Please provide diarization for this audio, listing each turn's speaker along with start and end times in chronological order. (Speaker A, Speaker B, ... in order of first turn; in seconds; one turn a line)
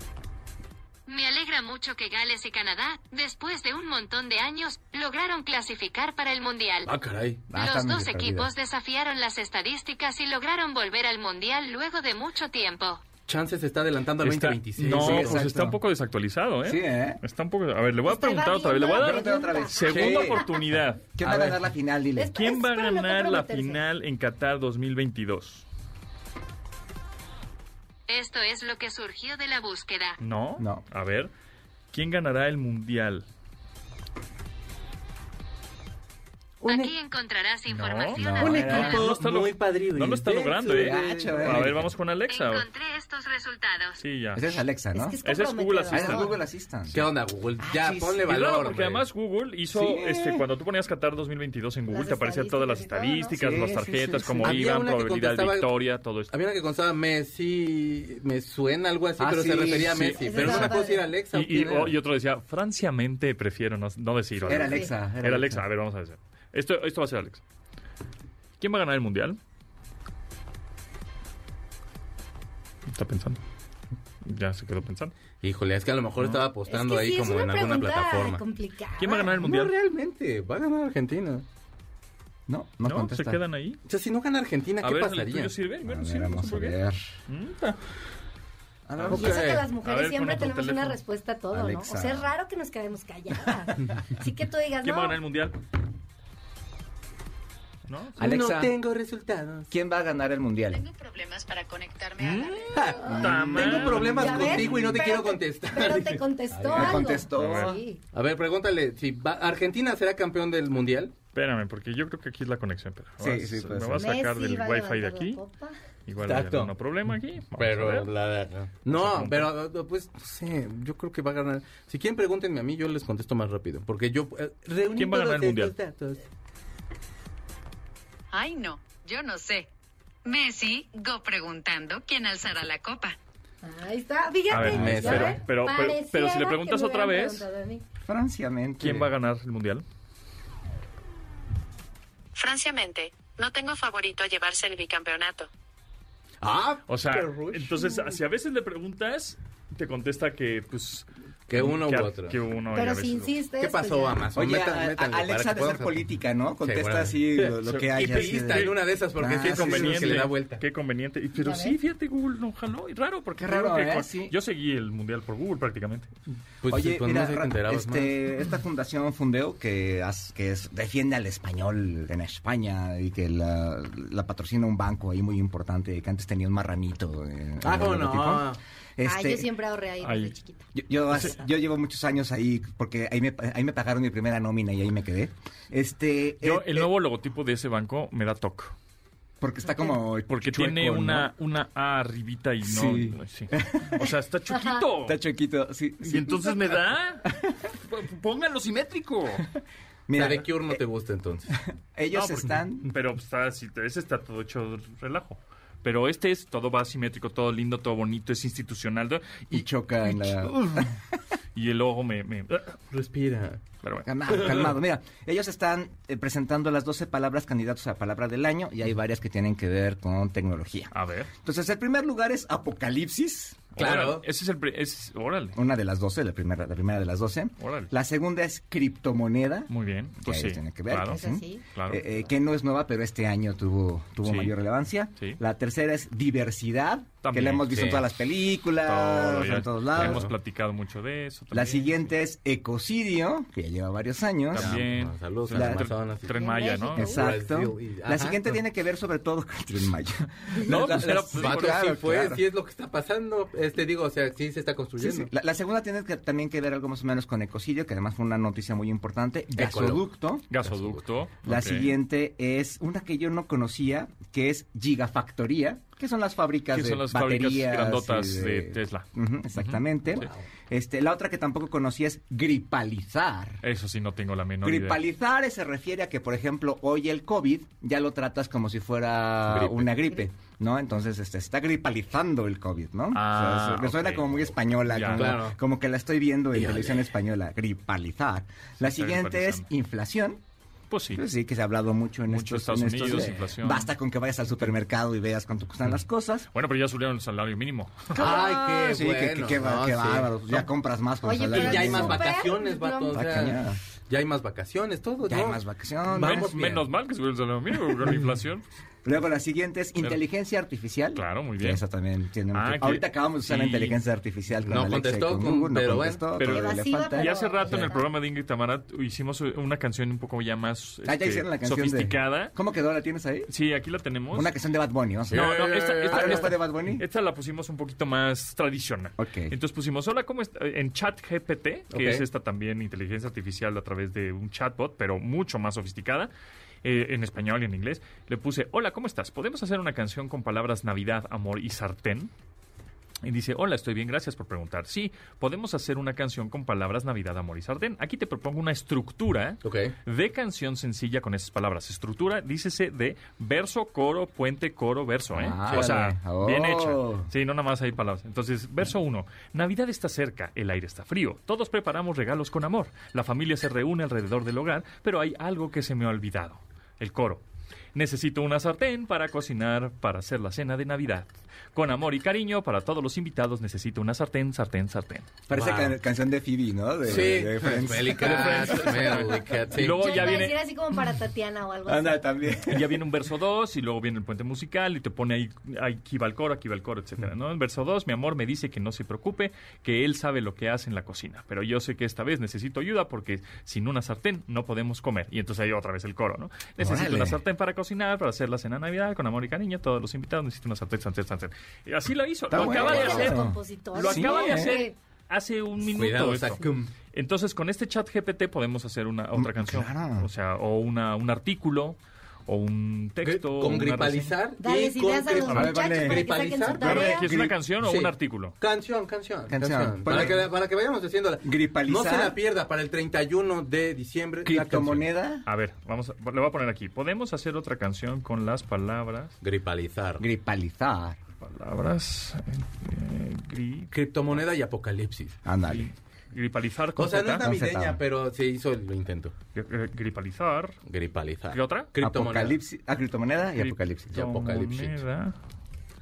Speaker A: 1.1-6.9
Speaker B: 6.8-7.4
Speaker C: 7.5-8.5
Speaker A: 7.5-13.0
Speaker B: 13.3-15.5
Speaker D: 14.2-21.2
Speaker C: 14.8-15.8
Speaker C: 16.6-17.2
Speaker E: 18.1-19.8
Speaker C: 18.9-20.5
Speaker B: 19.9-20.3
Speaker C: 21.2-22.4
Speaker B: 21.2-21.6
Speaker E: 22.1-23.8
Speaker D: 22.3-25.6
Speaker A: 28.1-30.2
Speaker D: 30.2-31.3
Speaker C: 30.6-30.8
Speaker D: 31.9-33.2
Speaker B: 36.6-36.9
Speaker A: 36.6-39.0
Speaker D: 37.7-42.6
Speaker C: 38.1-39.1
Speaker B: 38.4-41.8
Speaker C: 40.7-41.9
Speaker A: 42.3-44.0
Speaker D: 44.0-44.6
Speaker C: 44.3-45.2
Speaker E: 44.9-46.3
Speaker D: 45.2-46.3
Speaker C: 45.9-48.2
Speaker B: 46.9-49.0
Speaker D: 48.2-56.3
Speaker C: 49.7-50.4
Speaker E: 51.9-53.4
Speaker C: 53.4-54.7
Speaker B: 54.4-55.7
Speaker B: 56.3-61.9
Speaker C: 59.2-60.2
Speaker D: 59.7-60.7
Speaker E: 60.2-61.1
Speaker D: 61.3-67.4
Speaker C: 64.4-65.6
Speaker E: 64.5-64.9
Speaker D: 68.6-69.4
Speaker D: 72.9-73.4
Speaker D: 74.2-75.1
Speaker B: 75.4-78.4
Speaker D: 76.2-76.4
Speaker E: 76.7-79.3
Speaker D: 79.0-79.7
Speaker B: 79.2-81.4
Speaker C: 82.5-83.4
Speaker D: 82.8-83.8
Speaker B: 83.9-85.5
Speaker D: 84.8-87.8
Speaker C: 85.8-87.0
Speaker C: 88.9-89.4
Speaker D: 88.9-91.0
Speaker B: 89.1-89.7
Speaker E: 89.1-95.2
Speaker C: 91.5-92.3
Speaker D: 94.8-95.6
Speaker D: 97.9-98.2
Speaker C: 98.2-98.7
Speaker B: 98.2-99.7
Speaker C: 99.7-100.8
Speaker F: 100.7-102.9
Speaker D: 102.2-104.7
Speaker B: 102.7-107.1
Speaker C: 103.0-104.2
Speaker E: 104.1-108.0
Speaker C: 106.7-107.8
Speaker D: 107.3-107.8
Speaker B: 108.1-111.1
Speaker D: 111.3-115.4
Speaker C: 113.2-114.1
Speaker E: 114.0-115.7
Speaker D: 116.1-118.1
Speaker B: 116.2-116.7
Speaker B: 117.6-126.2
Speaker D: 118.9-119.5
Speaker D: 125.0-125.7
Speaker F: 128.3-129.7
Speaker F: 130.2-133.2
Speaker E: 133.6-137.8
Speaker D: 134.5-137.4
Speaker B: 134.7-135.4
Speaker C: 138.1-139.1
Speaker D: 138.8-139.8
Speaker F: 142.3-145.5
Speaker B: 146.4-148.1
Speaker D: 146.9-153.4
Speaker B: 151.5-152.3
Speaker E: 152.7-154.2
Speaker B: 153.6-155.9
Speaker C: 154.3-160.3
Speaker B: 156.6-160.6
Speaker D: 157.9-158.8
Speaker D: 159.3-166.1
Speaker E: 161.4-161.8
Speaker C: 163.4-164.3
Speaker B: 166.6-168.1
Speaker C: 166.7-179.5
Speaker B: 177.6-178.6
Speaker E: 179.0-180.7
Speaker D: 180.0-180.3
Speaker C: 180.7-186.9
Speaker D: 186.4-188.7
Speaker C: 189.4-191.3
Speaker D: 190.3-195.2
Speaker C: 192.6-194.1
Speaker C: 195.0-197.5
Speaker D: 196.0-199.4
Speaker C: 200.1-200.8
Speaker B: 200.1-201.5
Speaker C: 201.9-202.9
Speaker D: 202.1-209.5
Speaker C: 209.5-210.9
Speaker D: 210.1-210.8
Speaker D: 211.5-212.8
Speaker B: 212.9-213.6
Speaker C: 214.0-220.9
Speaker D: 220.9-221.3
Speaker C: 221.4-223.7
Speaker D: 223.8-225.6
Speaker B: 223.8-224.2
Speaker C: 225.5-229.7
Speaker D: 227.6-227.9
Speaker D: 229.7-232.0
Speaker C: 230.2-240.3
Speaker E: 231.1-231.6
Speaker D: 234.2-234.5
Speaker D: 237.2-238.0
Speaker B: 237.7-238.0
Speaker D: 238.8-242.1
Speaker B: 240.0-240.2
Speaker C: 241.5-244.8
Speaker D: 244.5-247.2
Speaker B: 244.5-246.3
Speaker C: 245.5-245.9
Speaker E: 246.3-247.2
Speaker C: 246.9-252.4
Speaker B: 247.0-248.6
Speaker D: 250.5-251.9
Speaker B: 250.7-255.3
Speaker C: 255.0-260.6
Speaker B: 259.6-260.0
Speaker D: 260.5-261.9
Speaker C: 261.4-273.6
Speaker D: 266.7-269.0
Speaker D: 269.6-270.3
Speaker B: 270.2-270.4
Speaker D: 273.6-275.0
Speaker C: 274.6-290.4
Speaker B: 279.5-279.9
Speaker D: 283.1-285.4
Speaker B: 285.1-285.6
Speaker B: 286.5-287.0
Speaker D: 288.8-289.6
Speaker D: 290.9-291.2
Speaker C: 291.1-296.5
Speaker D: 292.3-293.9
Speaker D: 296.5-298.2
Speaker C: 298.1-302.4
Speaker B: 298.1-300.6
Speaker E: 301.2-303.2
Speaker B: 301.5-305.6
Speaker C: 303.1-303.8
Speaker C: 305.3-306.9
Speaker B: 306.1-306.5
Speaker D: 306.1-308.6
Speaker C: 309.0-317.9
Speaker D: 311.1-311.8
Speaker D: 312.5-314.0
Speaker B: 314.6-316.3
Speaker D: 316.4-322.5
Speaker E: 316.4-318.0
Speaker C: 321.0-323.5
Speaker D: 323.5-324.5
Speaker C: 324.3-327.0
Speaker D: 325.3-336.3
Speaker B: 325.3-326.5
Speaker C: 329.2-329.5
Speaker B: 331.9-332.2
Speaker D: 336.8-342.3
Speaker D: 343.2-367.4
Speaker B: 349.6-349.9
Speaker C: 355.3-357.3
Speaker D: 367.9-375.3
Speaker C: 375.5-379.3
Speaker B: 375.5-375.9
Speaker B: 377.1-380.4
Speaker D: 378.0-380.6
Speaker E: 379.8-382.2
Speaker C: 381.9-383.0
Speaker D: 382.6-414.4
Speaker C: 396.8-397.4
Speaker C: 402.5-404.8
Speaker E: 402.6-404.9
Speaker B: 405.8-406.9
Speaker C: 409.3-410.3
Speaker B: 413.2-417.2
Speaker E: 414.6-417.3
Speaker C: 415.5-417.6
Speaker D: 416.8-418.6
Speaker B: 417.8-425.0
Speaker C: 419.5-420.5
Speaker D: 420.1-420.4
Speaker C: 421.4-422.4
Speaker C: 424.4-425.4
Speaker D: 425.4-429.3
Speaker B: 429.4-430.2
Speaker C: 430.2-431.2
Speaker D: 431.4-433.9
Speaker B: 433.9-435.4
Speaker C: 435.4-435.9
Speaker D: 435.7-437.5
Speaker B: 437.0-439.3
Speaker C: 437.4-438.0
Speaker D: 439.5-440.8
Speaker B: 440.9-442.6
Speaker D: 441.5-441.9
Speaker C: 442.0-444.3
Speaker D: 443.6-445.3
Speaker B: 444.1-445.0